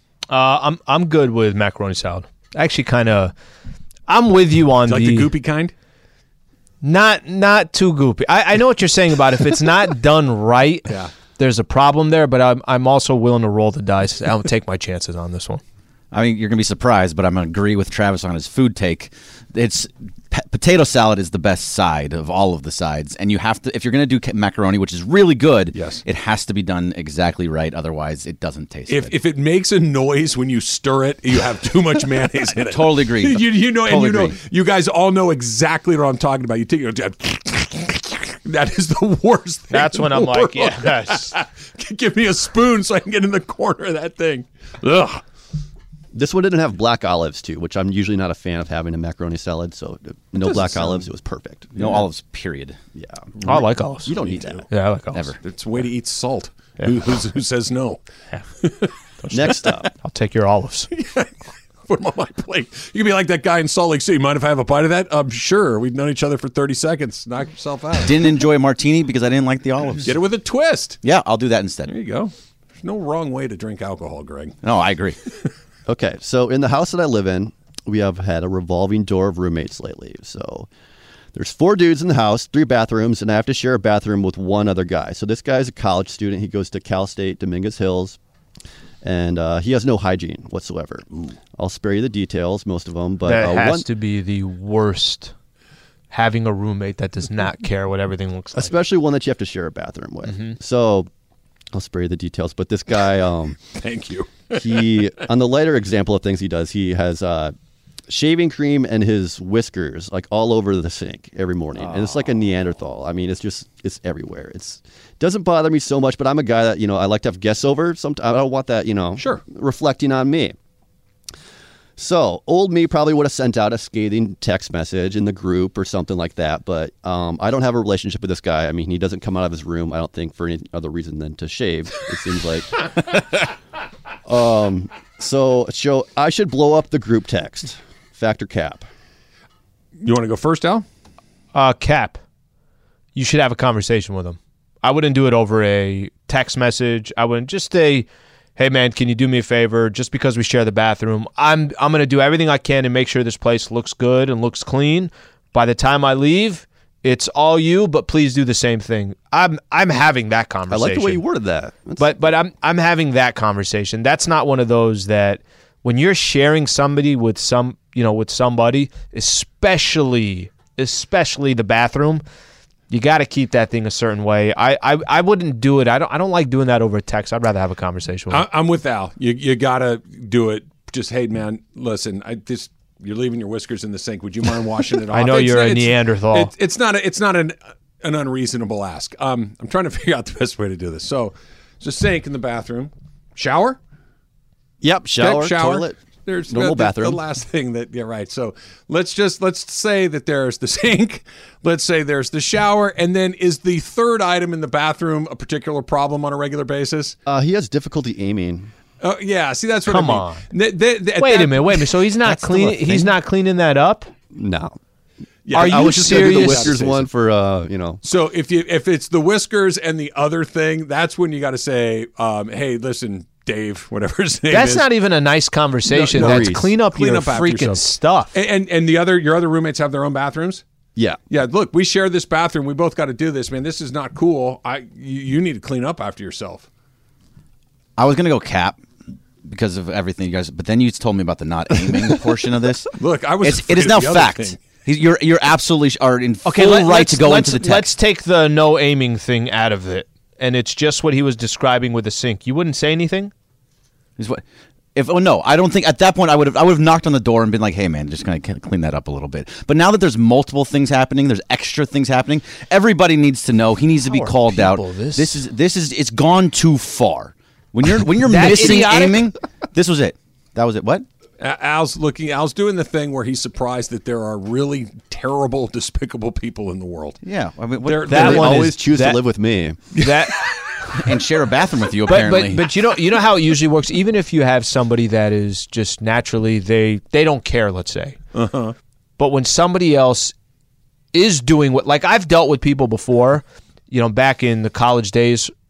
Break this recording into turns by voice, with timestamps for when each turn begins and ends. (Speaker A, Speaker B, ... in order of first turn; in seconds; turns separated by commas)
Speaker A: 0.3-3.3, Speaker A: 4.1-5.3, Speaker B: 4.9-5.7, Speaker A: 6.8-15.6, Speaker C: 16.1-29.1, Speaker B: 25.7-26.0, Speaker B: 28.9-45.2, Speaker C: 32.6-34.4, Speaker A: 39.7-41.3, Speaker D: 46.1-51.8, Speaker B: 50.4-51.1, Speaker C: 51.8-52.8, Speaker D: 53.0-54.7, Speaker A: 53.4-54.1, Speaker C: 54.1-54.6, Speaker A: 54.7-55.3, Speaker C: 55.1-55.4, Speaker B: 55.4-58.0, Speaker B: 58.6-58.9, Speaker A: 59.2-60.9, Speaker D: 59.3-59.9, Speaker B: 60.9-68.2, Speaker C: 68.0-70.1, Speaker B: 70.0-71.0, Speaker C: 71.0-71.9, Speaker B: 71.9-74.6, Speaker C: 74.6-75.2, Speaker D: 75.9-80.7, Speaker D: 81.3-88.2, Speaker D: 89.0-93.9, Speaker A: 93.3-95.3, Speaker A: 96.1-98.7, Speaker D: 98.5-101.1, Speaker A: 100.2-100.6, Speaker D: 101.7-103.6, Speaker B: 103.7-105.1, Speaker D: 104.6-107.5, Speaker D: 108.1-120.6, Speaker B: 111.8-112.2, Speaker B: 119.2-119.5, Speaker D: 122.0-132.8, Speaker D: 134.3-138.9, Speaker B: 140.0-140.8, Speaker A: 141.5-142.2, Speaker A: 143.2-148.1, Speaker A: 148.6-161.2, Speaker D: 160.7-162.2, Speaker A: 162.0-172.2, Speaker A: 172.9-178.4, Speaker B: 178.3-193.8, Speaker A: 185.1-186.5, Speaker D: 194.8-196.0, Speaker B: 195.2-207.2, Speaker D: 196.5-197.2, Speaker D: 207.3-208.7, Speaker B: 209.0-212.4, Speaker A: 209.9-210.4, Speaker A: 211.2-214.1, Speaker D: 212.5-213.1, Speaker D: 214.3-214.8, Speaker B: 215.4-217.1, Speaker A: 215.5-216.8, Speaker D: 215.5-218.0, Speaker B: 218.0-224.9, Speaker A: 224.5-228.3, Speaker B: 225.9-230.6, Speaker D: 226.2-226.7, Speaker B: 231.3-236.7, Speaker C: 238.0-238.8, Speaker C: 239.4-247.9, Speaker B: 243.0-244.6, Speaker A: 246.4-253.3, Speaker C: 254.2-254.4, Speaker C: 254.9-271.1, Speaker A: 264.1-265.4, Speaker A: 268.2-269.2, Speaker B: 271.4-277.2, Speaker C: 277.2-278.5, Speaker B: 277.8-278.7, Speaker A: 278.1-279.2, Speaker D: 278.1-279.8, Speaker A: 279.9-281.0, Speaker B: 280.0-280.8, Speaker C: 281.0-282.6, Speaker A: 282.1-288.2, Speaker B: 288.3-288.8, Speaker A: 289.2-290.4, Speaker A: 291.1-295.5